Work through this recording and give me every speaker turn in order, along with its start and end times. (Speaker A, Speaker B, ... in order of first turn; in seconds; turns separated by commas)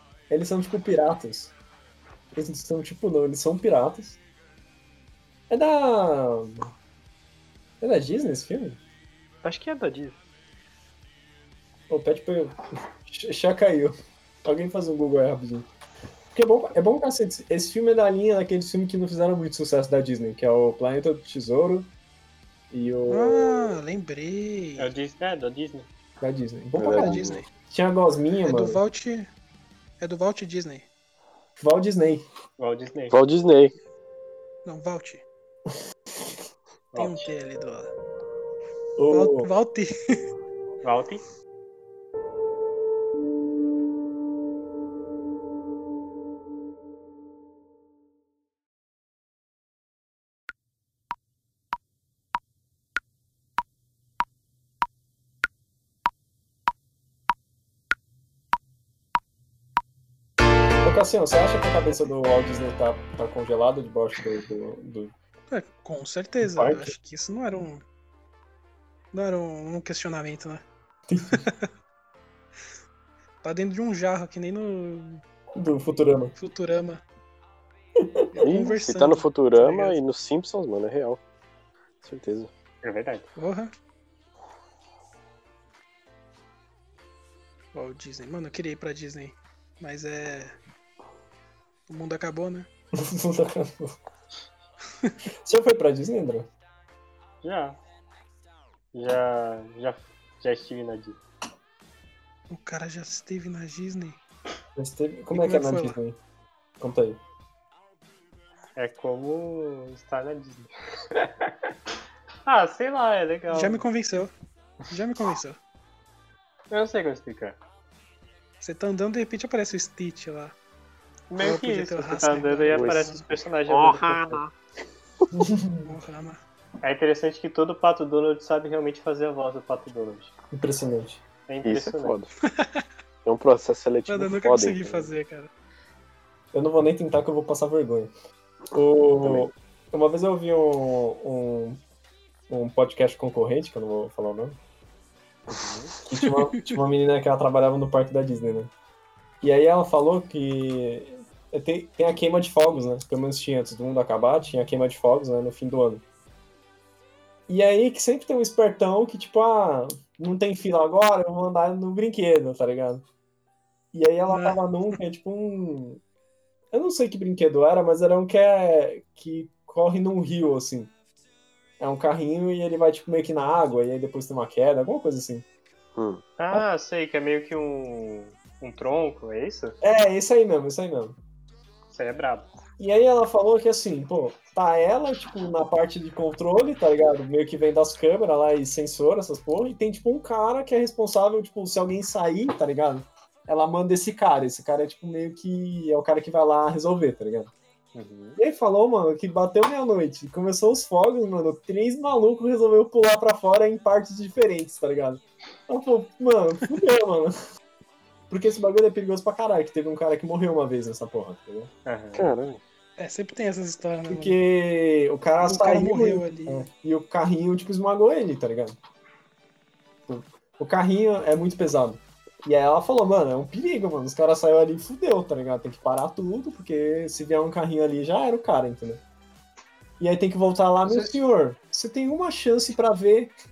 Speaker A: 0.3-1.5, Speaker A: 2.3-4.2, Speaker A: 5.5-6.7, Speaker A: 7.8-8.8, Speaker B: 9.4-10.2, Speaker A: 11.9-15.7, Speaker A: 16.3-21.9, Speaker A: 22.7-23.8, Speaker C: 23.1-24.9, Speaker B: 24.8-25.9, Speaker A: 26.2-28.8, Speaker D: 26.8-27.4, Speaker C: 26.9-27.4, Speaker C: 28.4-29.3, Speaker C: 30.0-30.9, Speaker A: 31.6-32.2, Speaker B: 32.6-33.2, Speaker D: 33.1-33.7, Speaker C: 34.6-35.2, Speaker B: 36.9-37.3, Speaker C: 37.0-37.9, Speaker A: 39.0-39.5, Speaker C: 39.1-40.2, Speaker B: 40.8-41.2, Speaker A: 60.8-65.1, Speaker C: 65.5-67.8, Speaker A: 66.4-66.9, Speaker C: 69.1-70.6, Speaker A: 71.1-71.5, Speaker C: 71.3-71.7, Speaker C: 73.4-75.2, Speaker A: 75.5-76.3, Speaker C: 76.3-77.0, Speaker A: 78.0-78.2, Speaker C: 78.3-80.0, Speaker D: 78.4-81.2, Speaker D: 82.0-82.5, Speaker B: 82.8-83.3, Speaker C: 83.3-83.7, Speaker C: 87.7-90.5, Speaker C: 91.9-92.7, Speaker A: 92.9-93.9, Speaker A: 95.4-96.5, Speaker B: 97.4-97.8, Speaker B: 98.9-101.2, Speaker C: 102.5-104.2, Speaker A: 104.8-106.2, Speaker C: 105.3-106.0, Speaker A: 106.8-107.2, Speaker B: 108.8-111.3, Speaker B: 112.4-113.8, Speaker C: 113.5-114.3, Speaker C: 114.9-115.6, Speaker B: 116.7-117.6, Speaker C: 118.6-120.5, Speaker B: 121.3-124.4, Speaker C: 121.4-123.2, Speaker D: 122.7-123.2, Speaker D: 123.7-124.5, Speaker A: 125.3-125.9, Speaker C: 125.8-126.4, Speaker B: 126.8-130.3, Speaker A: 130.5-131.2, Speaker B: 131.5-132.2, Speaker D: 131.6-132.3, Speaker C: 132.4-132.8, Speaker D: 133.2-135.1, Speaker C: 134.1-135.5, Speaker A: 136.5-138.1, Speaker A: 138.7-141.8, Speaker D: 139.2-139.5, Speaker A: 142.5-144.6, Speaker D: 145.5-145.9, Speaker A: 146.0-148.7, Speaker C: 146.2-146.8, Speaker A: 149.4-156.0, Speaker A: 157.5-163.0, Speaker A: 163.9-166.0, Speaker C: 164.3-164.9, Speaker A: 166.7-170.9, Speaker A: 171.8-175.4, Speaker D: 175.9-176.2, Speaker B: 176.4-179.8, Speaker A: 179.8-181.2, Speaker B: 181.9-182.5, Speaker A: 182.8-197.5, Speaker B: 197.9-198.4, Speaker A: 198.4-207.3, Speaker A: 208.3-211.7, Speaker B: 211.8-212.3, Speaker D: 212.1-212.6, Speaker C: 213.0-214.4, Speaker A: 214.1-218.8, Speaker C: 215.4-216.7, Speaker A: 220.1-229.0, Speaker A: 230.0-233.3